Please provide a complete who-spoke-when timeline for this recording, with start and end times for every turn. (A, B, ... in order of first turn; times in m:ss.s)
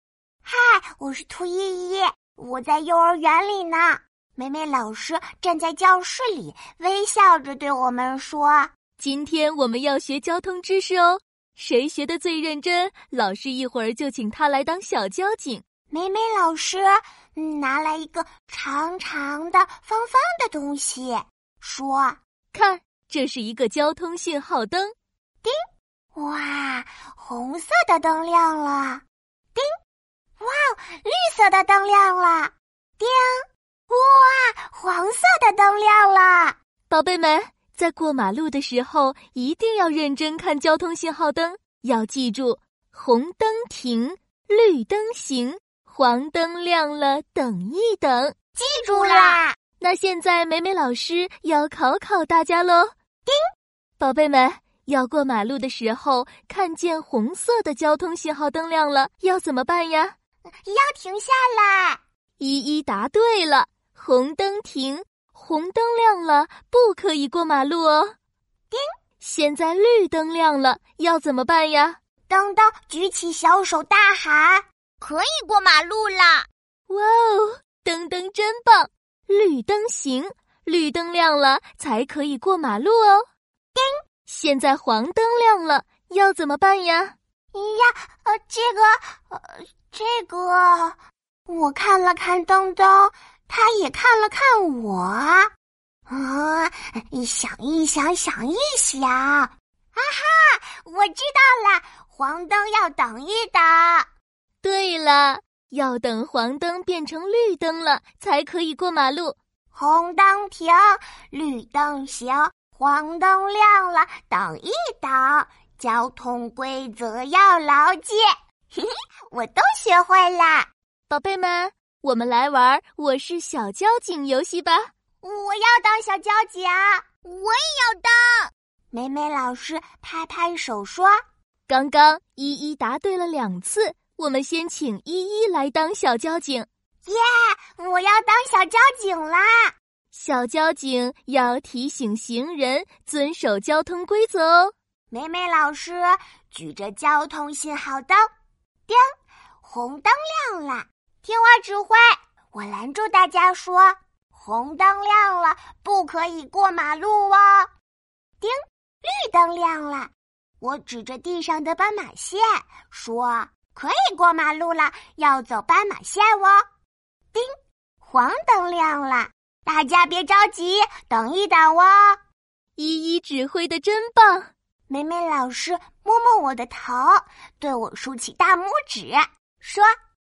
0:00.4-0:08.7 A
0:09.0-0:15.6 B
0:15.9-0:22.2 A
0:22.5-0:24.9 B
0:26.1-0:29.0 A
0:30.4-0:33.3 A
0:33.9-0:36.6 A
0:36.9-0:48.3 B
0:48.6-0:49.5 A
0:48.9-0:52.9 B
0:54.0-1:00.1 B
1:00.6-1:02.0 A
1:02.4-1:08.1 B
1:09.2-1:12.0 B
1:12.3-1:16.4 A
1:16.9-1:23.2 B
1:24.3-1:27.1 B
1:27.5-1:31.0 A
1:31.5-1:35.5 A
1:36.1-1:44.0 A
1:44.6-1:49.3 B
1:49.7-1:58.2 A
1:58.8-2:00.7 A
2:01.1-2:04.9 B
2:05.2-2:08.2 A
2:08.9-2:11.2 A
2:11.7-2:16.7 B
2:17.0-2:19.5 A
2:20.1-2:24.7 B
2:25.1-2:28.2 A
2:29.6-2:37.7 A
2:38.4-2:46.6 A
2:48.0-2:52.2 A
2:52.8-2:54.5 B
2:54.9-2:59.9 A